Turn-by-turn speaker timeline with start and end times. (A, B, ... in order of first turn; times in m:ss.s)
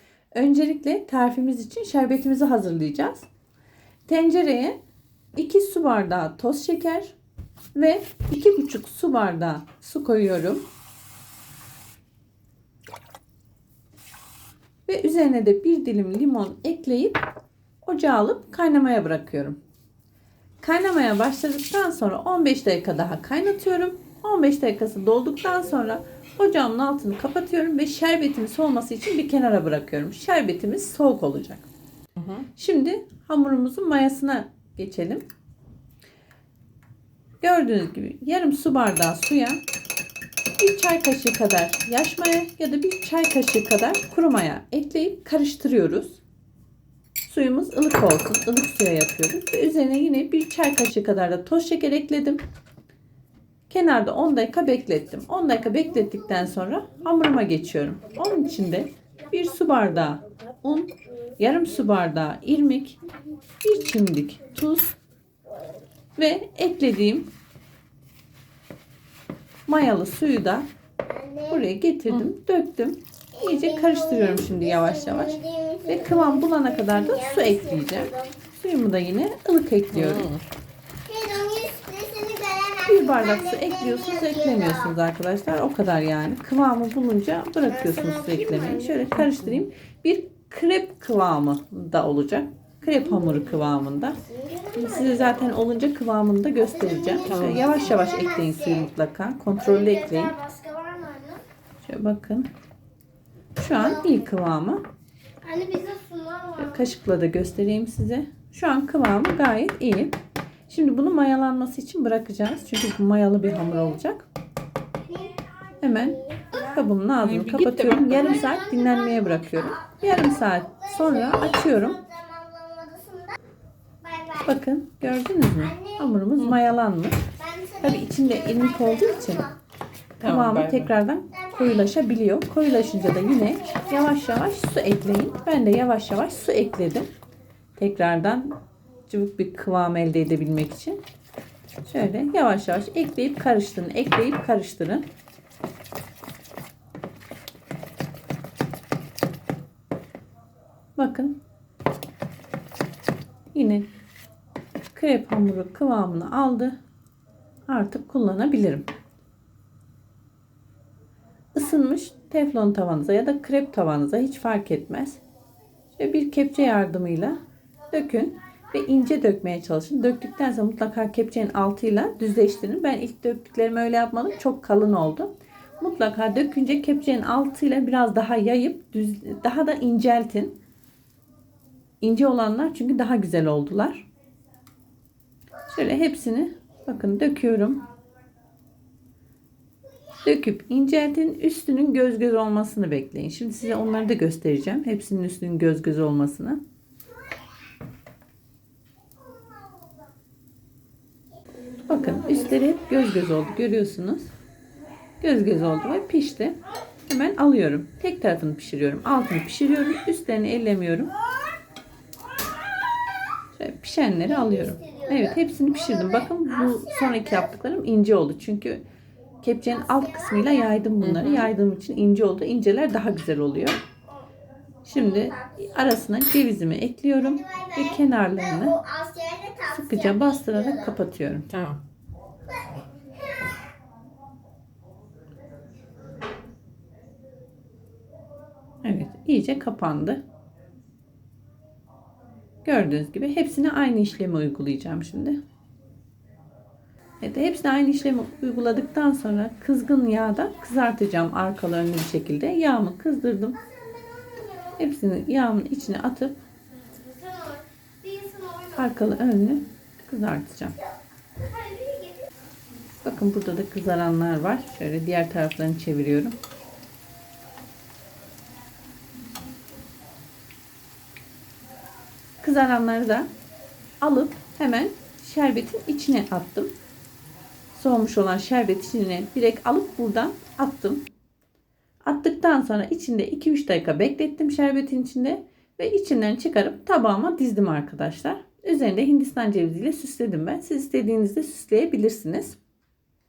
0:00.3-0:03.3 A
0:04.1-0:04.8 A
0:05.4-0:07.2 A
0:07.8-0:10.6 A
0:14.9-0:17.2 A
0:17.8-0:19.6 A
0:20.6-0:31.7 A
0:32.2-0:32.5 B
0:32.6-0:35.2 A
0:37.4-0:39.6 A
0:40.6-0:46.2 A
0:47.2-0:52.4 A
0:53.7-1:03.0 A
1:03.6-1:05.0 A
1:06.2-1:07.3 A
1:09.7-1:10.7 A
1:11.0-1:11.6 C
1:11.5-1:20.3 A
1:13.3-1:18.4 C
1:19.9-1:20.4 B
1:21.1-1:24.9 C
1:22.8-1:34.2 A
1:27.7-1:29.1 C
1:29.2-1:29.6 B
1:33.0-1:35.5 C
1:34.8-1:40.3 A
1:36.6-1:38.9 C
1:37.2-1:37.7 B
1:39.6-1:41.4 C
1:41.8-1:42.5 A
1:43.6-1:44.8 A
1:43.7-1:44.2 C
1:45.4-1:46.9 C
1:46.6-1:54.3 A
1:53.6-1:54.0 C
1:55.0-1:56.7 C
1:55.8-2:02.0 A
1:57.2-1:58.4 B
1:58.2-2:03.4 C
2:04.0-2:04.6 C
2:04.4-2:07.3 A
2:05.6-2:06.2 C
2:07.4-2:09.6 C
2:07.8-2:09.5 A
2:10.2-2:10.9 B
2:10.2-2:17.1 A
2:11.3-2:11.9 C
2:12.6-2:15.2 C
2:17.8-2:18.6 A
2:19.1-2:21.0 A
2:21.8-2:25.1 A
2:31.0-2:31.4 A
2:33.5-2:33.9 A
2:34.9-2:36.8 A
2:37.7-2:38.9 A
2:41.5-2:45.2 A
2:46.0-2:47.4 A
2:47.9-3:00.6 A
3:02.0-3:04.0 A
3:05.7-3:07.8 A
3:10.2-3:16.6 A
3:19.4-3:19.8 C
3:21.9-3:24.3 A
3:25.2-3:26.6 A
3:27.1-3:31.1 A
3:33.6-3:38.8 A
3:34.2-3:37.5 C
3:39.4-3:43.8 A
3:39.7-3:40.8 C
3:41.0-3:41.5 B
3:44.8-3:48.8 A
3:44.9-3:45.7 C
3:47.2-3:51.0 C
3:49.7-3:51.5 A
3:51.5-3:51.8 B
3:58.8-4:00.2 A
4:02.6-4:05.4 A
4:07.2-4:13.6 A
4:13.6-4:14.8 C
4:14.8-4:16.4 A
4:16.8-4:19.2 C
4:18.8-4:20.8 A
4:21.4-4:22.3 C
4:23.0-4:26.4 A
4:32.4-4:33.3 A
4:34.0-4:36.7 A
4:37.8-4:41.0 A
4:42.1-4:52.6 A